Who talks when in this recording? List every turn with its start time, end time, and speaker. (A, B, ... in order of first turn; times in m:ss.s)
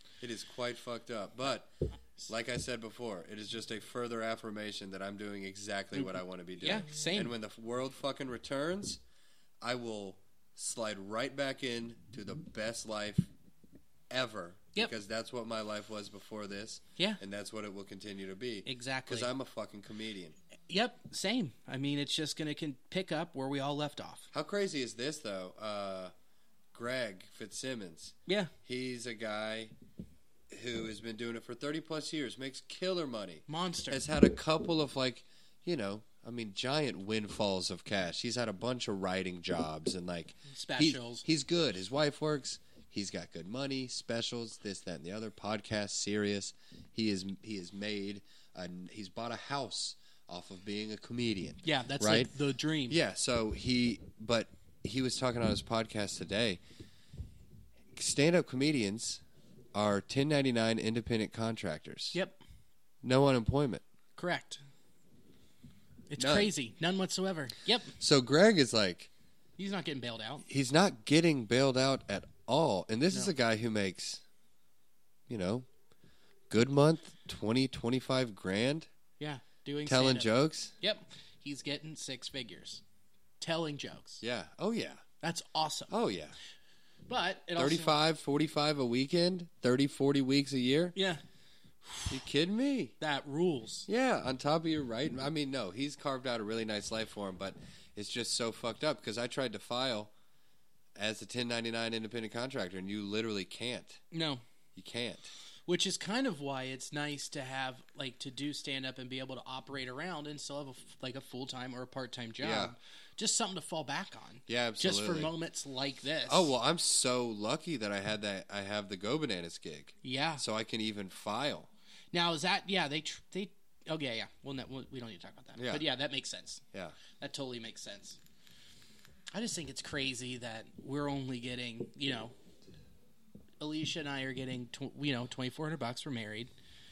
0:00.2-0:01.7 A
0:02.3-0:09.0 A
0:06.0-0:07.3 B
0:09.6-0:13.3 A
0:14.1-0:20.4 A
0:18.6-0:19.3 B
0:20.7-0:24.3 B
0:24.3-0:26.1 A
0:26.7-0:29.7 A
0:28.3-0:28.5 B
0:30.5-0:52.3 A
0:33.5-0:34.0 B
0:40.5-0:41.3 B
0:51.6-0:53.0 B
0:52.9-0:56.6 A
0:58.0-0:59.2 A
0:59.7-1:02.2 A
1:02.1-1:02.4 B
1:03.0-1:03.8 A
1:04.2-1:04.6 B
1:06.1-1:07.9 B
1:06.2-1:06.5 A
1:08.0-1:09.1 A
1:09.6-1:10.5 B
1:10.5-1:14.2 A
1:15.3-1:15.7 A
1:16.5-1:18.9 A
1:19.2-1:22.8 B
1:19.9-1:20.7 A
1:23.4-1:24.2 B
1:24.2-1:25.0 A
1:25.2-1:25.9 B
1:25.9-1:26.4 A
1:27.1-1:28.0 B
1:27.6-1:31.0 A
1:31.0-1:31.2 B
1:31.8-1:32.2 B
1:32.1-1:33.0 A
1:33.0-1:33.9 B
1:33.9-1:40.1 A
1:41.0-1:44.0 A
1:44.1-1:44.4 B
1:44.8-1:45.3 A
1:45.7-1:56.5 B
1:52.4-1:52.7 A
1:54.5-1:55.3 A
1:56.3-2:01.7 A
2:00.0-2:00.4 B
2:02.1-2:06.6 B
2:05.6-2:05.9 A
2:07.2-2:08.2 B
2:09.3-2:12.3 B
2:13.6-2:16.5 B